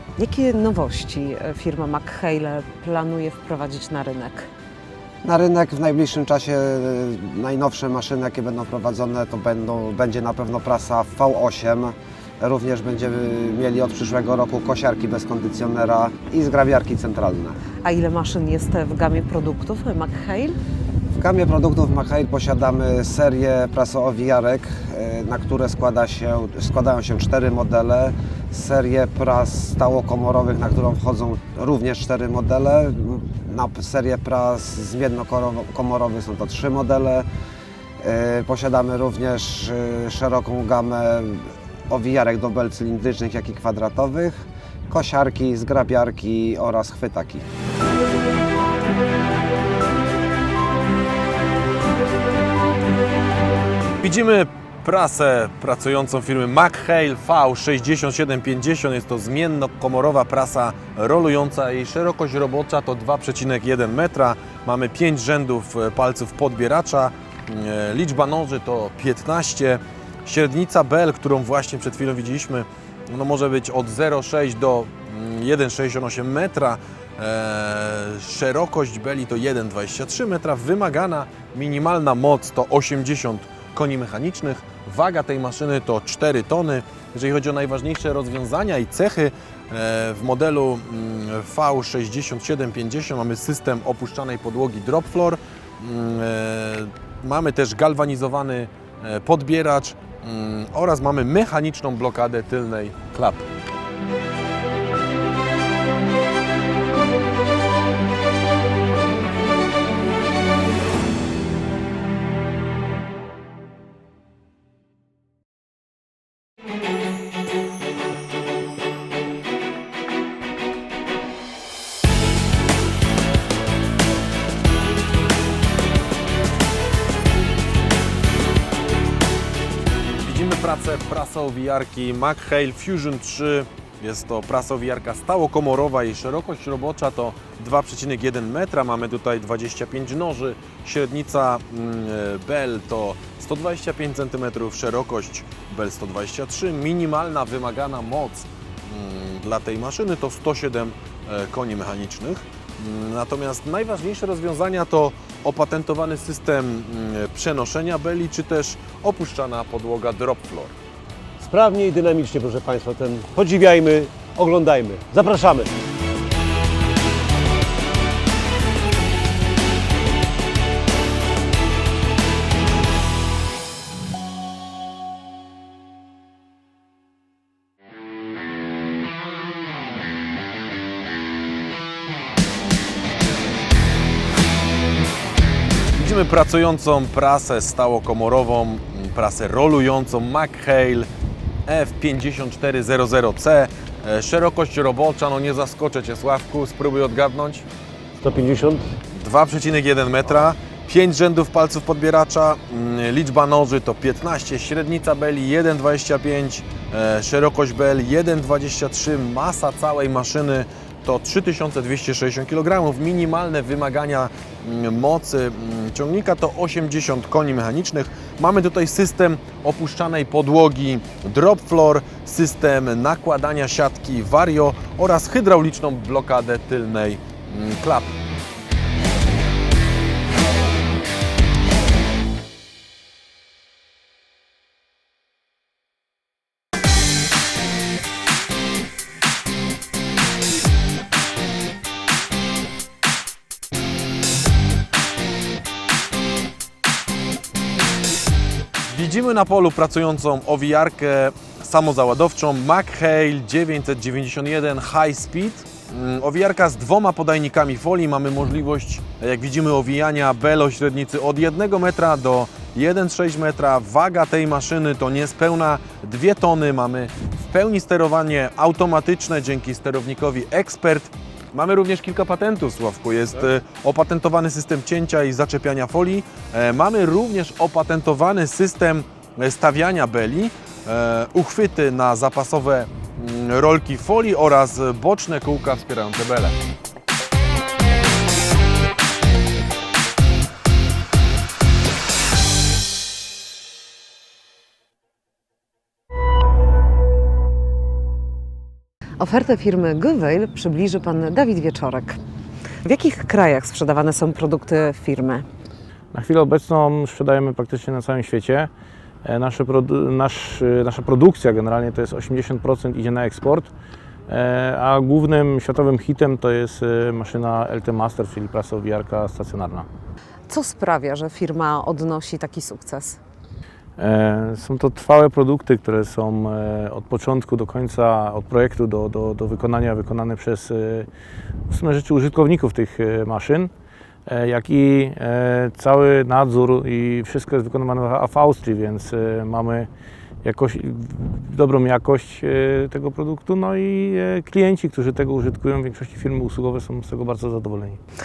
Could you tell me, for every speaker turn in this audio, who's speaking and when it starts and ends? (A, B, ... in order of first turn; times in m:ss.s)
0:00.2-0:04.5 A
0:05.2-0:17.6 B
0:17.8-0:20.6 A
0:21.2-0:37.3 B
0:38.0-0:47.4 B
0:54.0-1:43.5 C
2:10.2-2:40.7 C
2:41.4-2:45.7 D
3:06.0-3:11.1 C
3:11.7-3:17.7 C
3:18.2-3:18.9 D
3:19.1-3:48.2 C
4:08.9-4:46.6 C
4:59.2-5:02.2 A
5:02.8-5:05.4 A
5:06.1-5:08.7 E
5:09.2-5:13.7 E
5:14.3-5:19.9 E
5:20.5-5:23.2 A
5:24.0-5:31.1 E
5:31.7-5:33.7 E
5:34.3-5:39.9 E
5:40.4-5:48.0 E